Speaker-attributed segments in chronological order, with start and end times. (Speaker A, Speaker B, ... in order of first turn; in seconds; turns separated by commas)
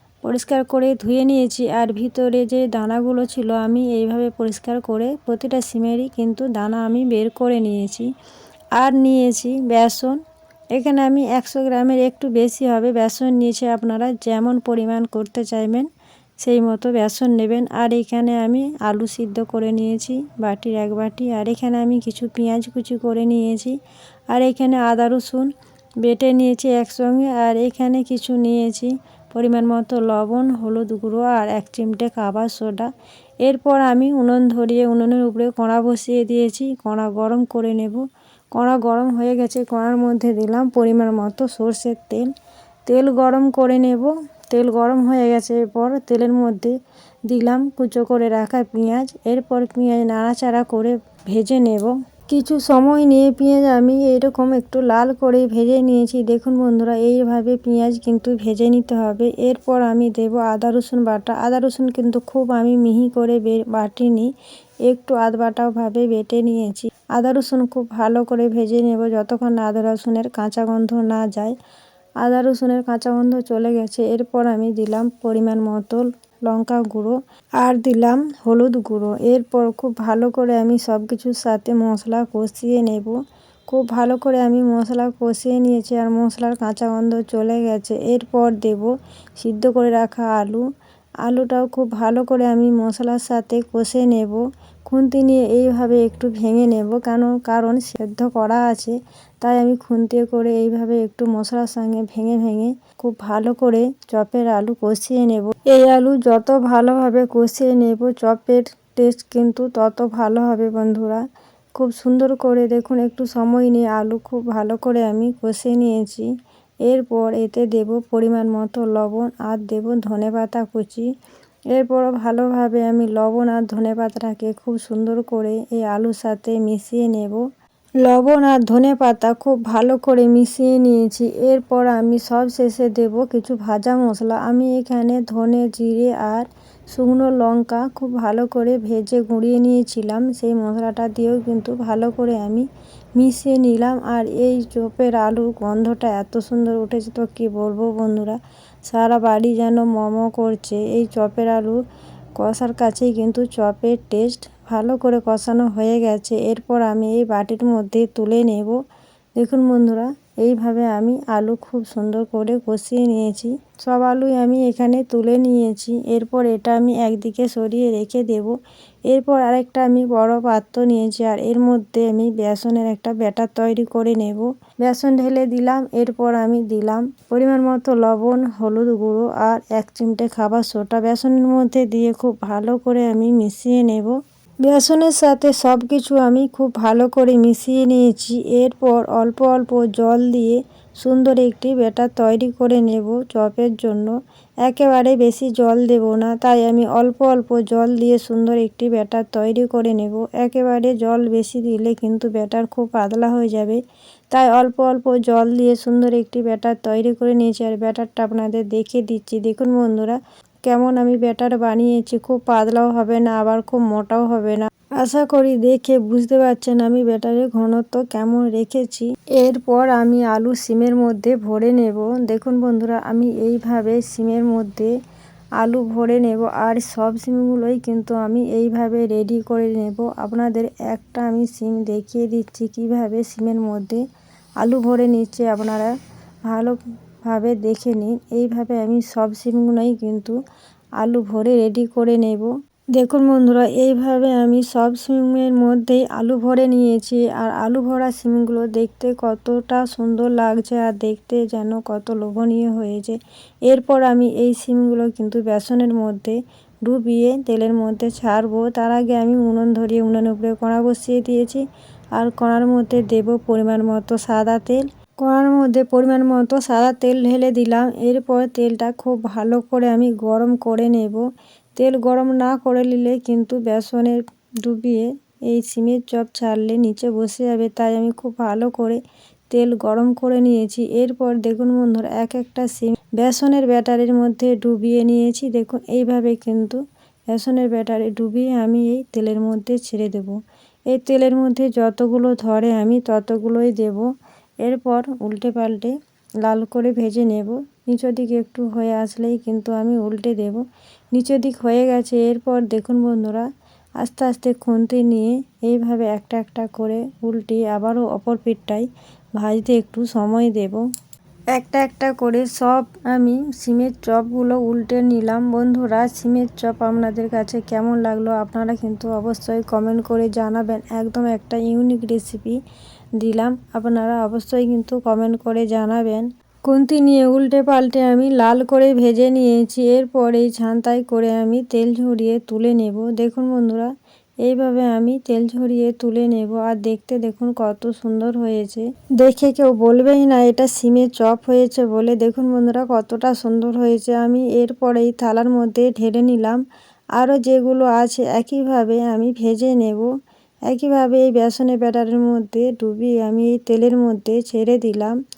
Speaker A: 0.2-8.1, Speaker A: 8.8-10.2, Speaker A: 10.7-15.9, Speaker A: 16.4-23.8, Speaker A: 24.3-25.5, Speaker A: 26.0-32.9, Speaker A: 33.4-38.0, Speaker A: 38.5-42.3, Speaker A: 42.9-46.7, Speaker A: 47.3-64.3, Speaker A: 64.9-71.6, Speaker A: 72.2-83.2, Speaker A: 83.7-90.7, Speaker A: 91.2-111.2, Speaker A: 111.8-116.3, Speaker A: 116.9-121.1, Speaker A: 121.7-127.4, Speaker A: 128.0-151.8, Speaker A: 152.4-158.8, Speaker A: 159.4-168.6, Speaker A: 169.1-203.8, Speaker A: 204.3-224.9, Speaker A: 225.6-234.0, Speaker A: 234.6-235.9, Speaker A: 236.5-240.4, Speaker A: 241.0-261.6, Speaker A: 262.1-271.2, Speaker A: 271.8-279.0, Speaker A: 279.5-286.8, Speaker A: 287.3-290.4, Speaker A: 290.9-294.1, Speaker A: 294.6-300.6, Speaker A: 301.1-303.5, Speaker A: 304.0-308.9, Speaker A: 309.4-310.8, Speaker A: 311.5-322.6, Speaker A: 323.2-333.9, Speaker A: 334.4-346.6, Speaker A: 347.2-350.1, Speaker A: 350.7-355.2